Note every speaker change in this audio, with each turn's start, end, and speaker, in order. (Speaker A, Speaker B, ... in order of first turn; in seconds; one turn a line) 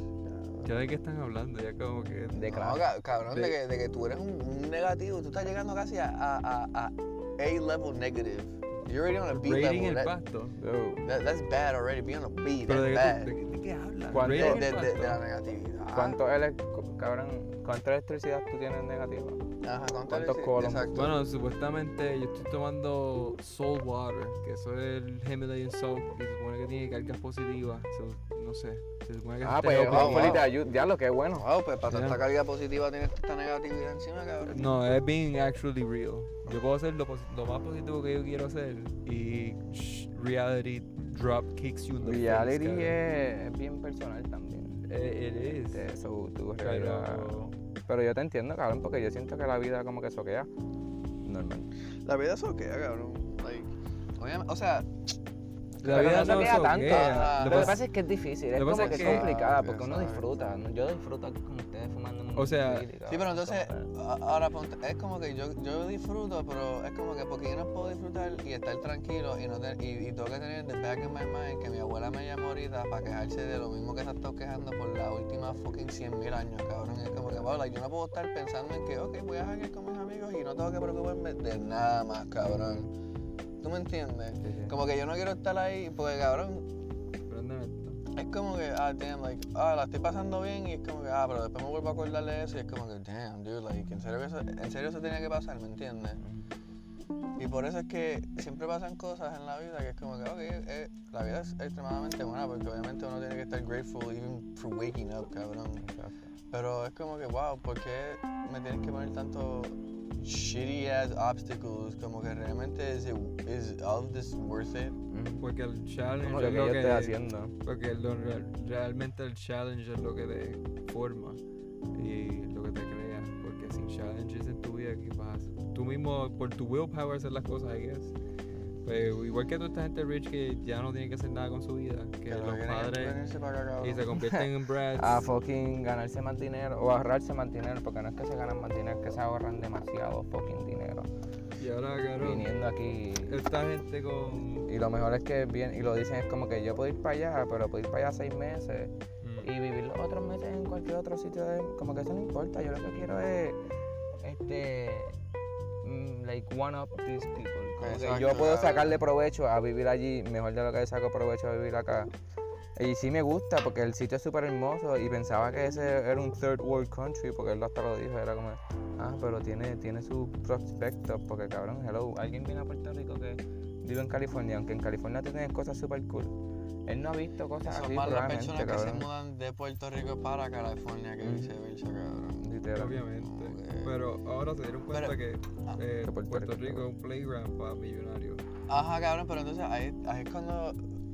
Speaker A: 0.2-0.7
Speaker B: 0.6-2.5
Speaker C: 2.3-2.8
Speaker A: 2.4-10.1
Speaker B: 3.3-3.5
Speaker B: 9.3-10.6
Speaker C: 10.6-11.0
Speaker A: 11.0-13.3
Speaker B: 12.7-15.2
Speaker C: 14.1-14.7
Speaker A: 14.2-16.2
Speaker C: 15.9-19.4
Speaker A: 19.6-21.1
Speaker C: 20.1-20.9
Speaker B: 20.9-30.4
Speaker C: 29.4-31.5
Speaker A: 29.8-30.5
Speaker A: 31.4-34.8
Speaker B: 31.9-32.2
Speaker B: 34.5-43.0
Speaker C: 42.0-44.9
Speaker B: 44.8-45.9
Speaker C: 45.4-47.3
Speaker B: 46.6-47.5
Speaker C: 47.9-50.5
Speaker C: 51.2-51.7
Speaker A: 52.0-55.1
Speaker A: 55.8-57.8
Speaker B: 55.8-57.8
Speaker C: 55.9-63.9
Speaker B: 58.5-59.2
Speaker A: 58.7-60.3
Speaker B: 62.3-62.9
Speaker A: 63.0-82.9
Speaker C: 82.4-82.9
Speaker A: 83.6-86.6
Speaker C: 84.4-84.7
Speaker B: 87.3-88.0
Speaker A: 88.1-96.2
Speaker C: 96.2-96.5
Speaker A: 97.4-105.8
Speaker C: 105.8-106.2
Speaker A: 106.5-115.0
Speaker C: 115.1-115.5
Speaker B: 115.4-121.4
Speaker C: 116.2-117.5
Speaker B: 121.9-128.1
Speaker C: 128.5-128.8
Speaker B: 128.8-133.2
Speaker A: 132.3-134.1
Speaker B: 133.8-135.2
Speaker C: 134.1-141.1
Speaker B: 141.6-142.5
Speaker C: 142.2-143.4
Speaker B: 143.2-144.7
Speaker C: 144.7-153.6
Speaker B: 149.2-149.5
Speaker C: 154.2-155.1
Speaker C: 155.8-162.1
Speaker A: 157.8-159.0
Speaker C: 162.8-176.3
Speaker C: 176.9-179.1
Speaker A: 177.6-182.5
Speaker C: 181.2-181.5
Speaker C: 182.4-183.0
Speaker B: 182.7-188.4
Speaker A: 183.2-183.9
Speaker A: 184.9-185.8
Speaker C: 186.0-186.9
Speaker A: 188.7-190.8